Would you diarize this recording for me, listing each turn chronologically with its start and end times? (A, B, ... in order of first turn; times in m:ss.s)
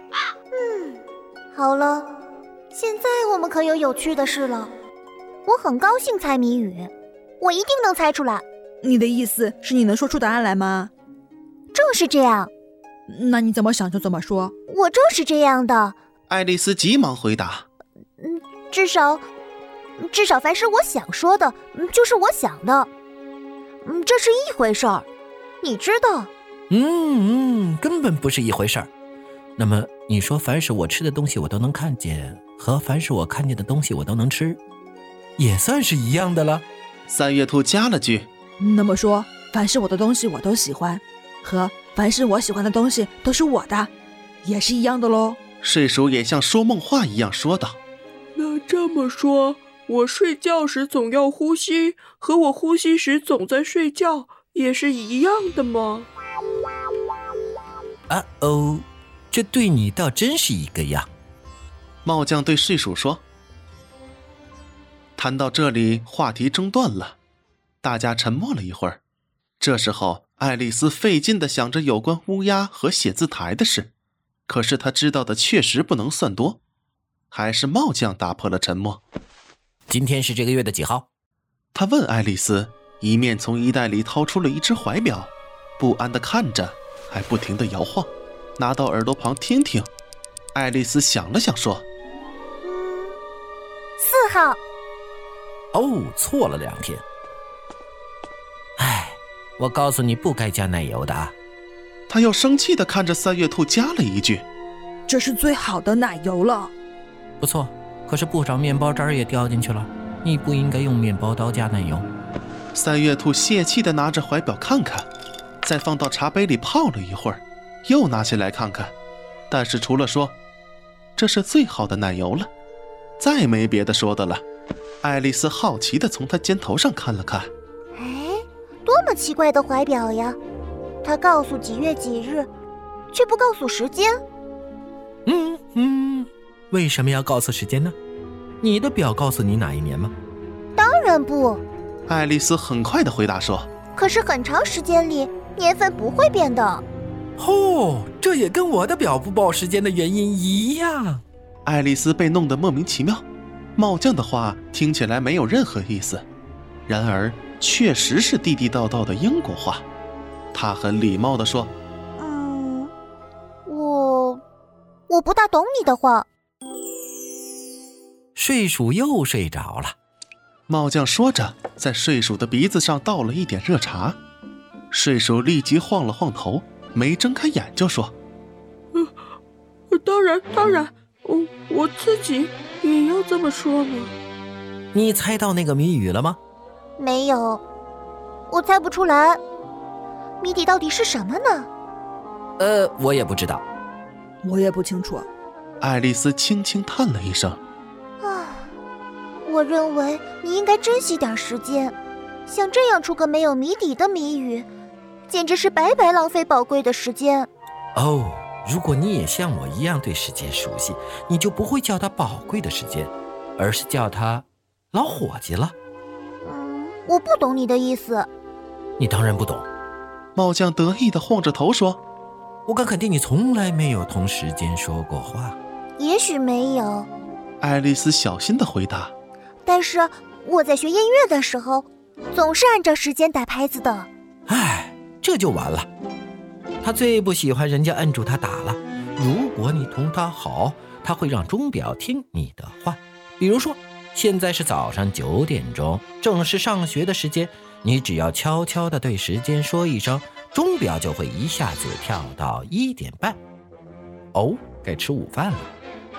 0:00.5-0:01.0 A
0:01.5-0:02.1 A
0:02.7-0:04.7 A
0:05.4-0:08.4 A
0:08.8-0:10.9 B
0:11.7-0:12.5 A
0:13.1-0:14.5 B
0:14.7-0:16.0 A
0:16.3-0:17.6 C
0:18.2-0:19.2 A
0:20.0-0:22.9 A
0:23.8-0:25.0 A
0:25.6-0:26.3 A
0:26.7-0:28.9 D
0:29.6-0:34.6 D
0:35.4-0:36.6 D
0:37.1-0:38.3 C
0:38.6-0:43.9 B
0:44.4-0:45.4 B
0:45.6-0:47.8 C
0:48.4-0:56.1 E
0:58.1-1:01.1 D
1:02.0-1:03.2 C
1:05.2-1:07.2 C
1:07.8-1:09.0 C
1:09.6-1:13.9 C
1:14.5-1:16.6 C
1:17.3-1:19.0 C
1:19.9-1:21.1 D
1:21.7-1:29.9 C
1:30.5-1:31.8 C
1:32.6-1:33.2 A
1:34.0-1:34.6 A
1:35.7-1:37.0 D
1:38.8-1:41.4 D
1:42.1-1:44.4 C
1:45.1-1:46.7 B
1:47.4-1:52.1 D
1:52.7-1:55.1 C
1:55.6-1:58.9 C
1:59.5-2:00.4 C
2:01.2-2:02.5 C
2:03.2-2:04.4 C
2:05.0-2:07.5 C
2:07.9-2:10.4 A
2:11.0-2:12.5 A
2:13.1-2:14.2 A
2:15.2-2:18.0 D
2:18.6-2:20.1 D
2:20.8-2:21.6 A
2:22.1-2:23.7 C
2:23.9-2:26.8 A
2:27.4-2:31.2 D
2:31.6-2:33.2 C
2:33.8-2:36.2 C
2:36.9-2:39.8 C
2:40.5-2:41.7 C
2:42.2-2:42.9 A
2:43.6-2:44.4 A
2:45.1-2:46.2 A
2:48.3-2:49.9 D
2:50.7-2:54.2 C
2:54.9-2:58.1 C
2:59.9-3:04.1 E
3:04.9-3:06.4 D
3:07.0-3:07.6 A
3:08.5-3:09.4 A
3:10.4-3:11.7 A
3:12.6-3:13.6 D
3:14.4-3:15.3 B
3:15.8-3:17.6 C
3:18.2-3:18.7 A
3:19.4-3:21.9 A
3:22.4-3:24.7 A
3:25.3-3:27.5 A
3:27.9-3:35.8 D
3:36.4-3:38.3 A
3:39.0-3:39.6 D
3:40.3-3:42.0 C
3:42.6-3:45.6 D
3:46.0-3:47.1 A
3:47.6-3:49.1 C
3:49.6-3:54.1 A
3:54.5-3:55.9 D
3:56.8-4:13.4 D
4:14.3-4:15.7 D